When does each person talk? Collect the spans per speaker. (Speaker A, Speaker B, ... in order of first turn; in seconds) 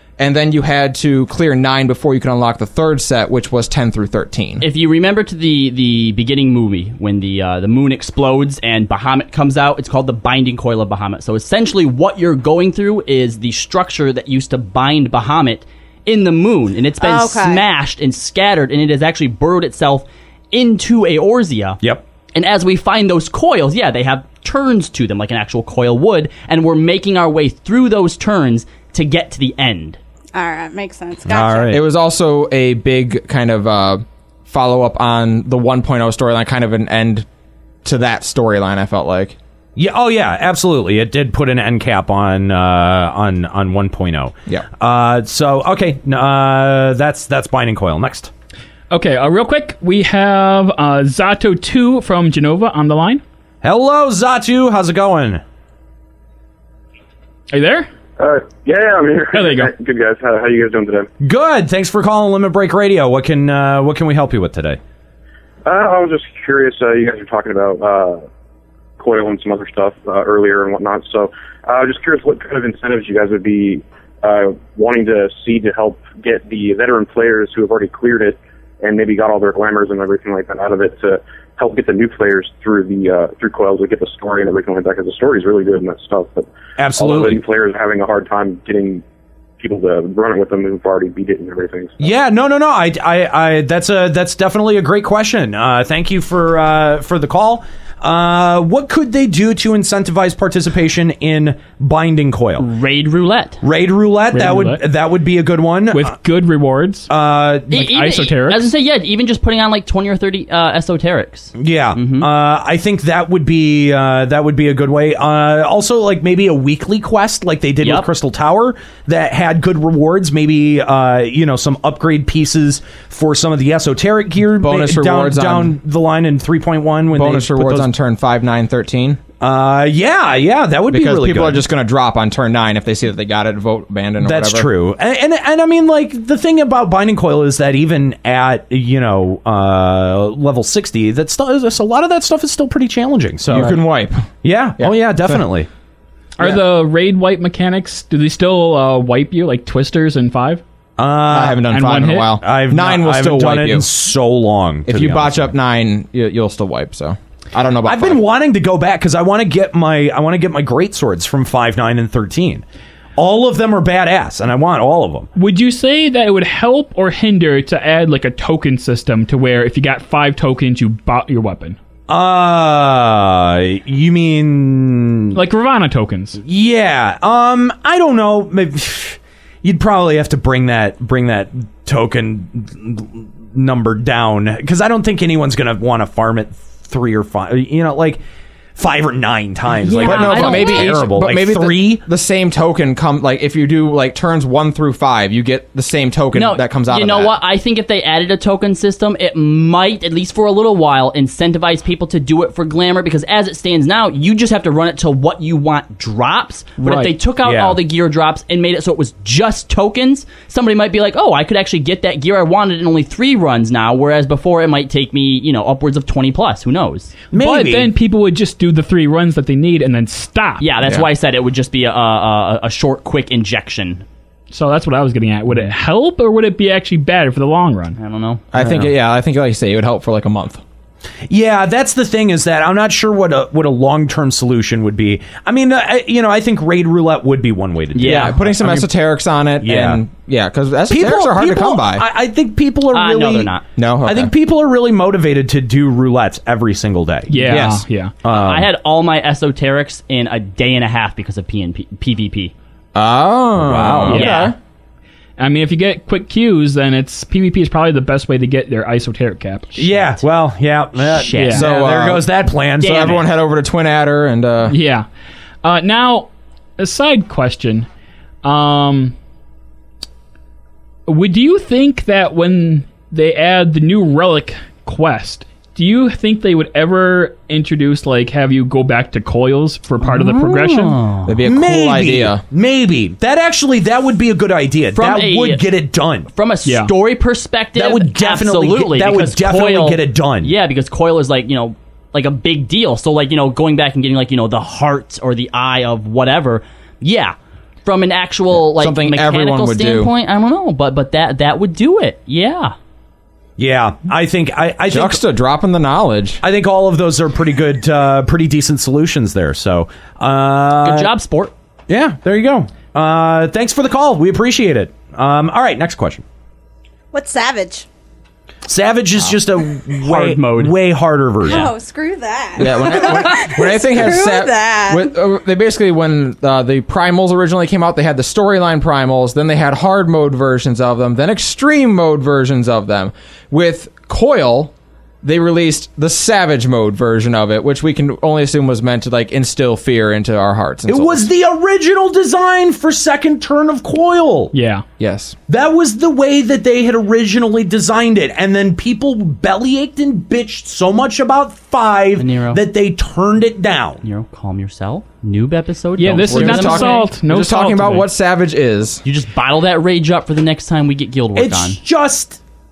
Speaker A: 0.2-4.6, 31.7-37.2, 37.8-39.4, 124.6-125.8, 127.1-129.2, 130.9-134.7, 143.5-144.3, 144.8-145.4, 151.3-153.8, 154.8-158.2, 190.0-197.4, 228.5-230.6, 238.0-242.0, 243.8-244.3, 247.4-247.8, 252.9-254.6, 261.5-262.2, 262.8-264.8, 281.2-282.4, 298.5-300.1, 304.9-306.4, 322.6-334.7, 335.2-341.2, 345.0-345.4, 356.3-359.0
Speaker B: 4.6-21.8, 22.3-30.0, 102.6-103.6, 107.7-112.3, 117.8-118.1, 189.8-191.0, 196.3-217.1, 220.6-224.0, 228.0-228.4, 237.9-238.8, 242.9-243.6, 248.3-252.5, 254.1-254.5, 261.0-261.7, 262.8-263.2, 280.1-281.3, 284.9-285.7, 286.3-302.7, 310.8-311.5, 320.0-320.8, 321.4-321.7, 352.2-352.6, 354.0-357.1, 359.0-361.8
Speaker C: 17.0-17.6, 30.3-31.8, 317.1-317.9, 321.4-325.1
Speaker D: 31.2-31.8, 39.8-48.3, 53.6-55.4, 61.2-64.8, 86.8-87.4, 92.0-102.6, 103.6-106.1, 107.1-107.8, 111.5-127.9, 129.4-131.6, 134.2-143.8, 144.4-145.7, 151.0-151.7, 152.4-155.5, 157.8-162.6, 163.2-165.3, 172.1-175.4, 176.4-188.2, 188.8-192.0, 207.4-207.8, 217.3-217.9, 228.6-228.9, 231.3-238.9, 239.6-240.0, 240.9-247.4, 248.2-248.7, 253.6-254.2, 259.8-263.1, 281.4-286.3, 287.7-290.5, 303.6-305.2, 306.4-311.1, 311.9-316.2, 318.6-321.7, 340.9-344.5, 345.5-354.0, 361.3-362.4
Speaker E: 48.9-53.2, 57.5-57.9, 59.3-59.7, 104.3-104.8, 105.9-107.1, 107.7-108.7, 146.4-150.6, 151.7-152.3, 165.3-171.8, 175.3-176.4, 217.3-220.6, 224.5-228.0, 247.3-248.1, 254.1-254.4, 255.4-259.9, 261.4-261.6, 264.7-265.1, 265.6-267.9, 268.4-269.1, 271.1-281.0, 286.6-286.9, 344.5-344.8, 356.0-358.1
Speaker F: 58.2-61.1, 65.6-68.2, 69.0-89.0, 89.6-92.1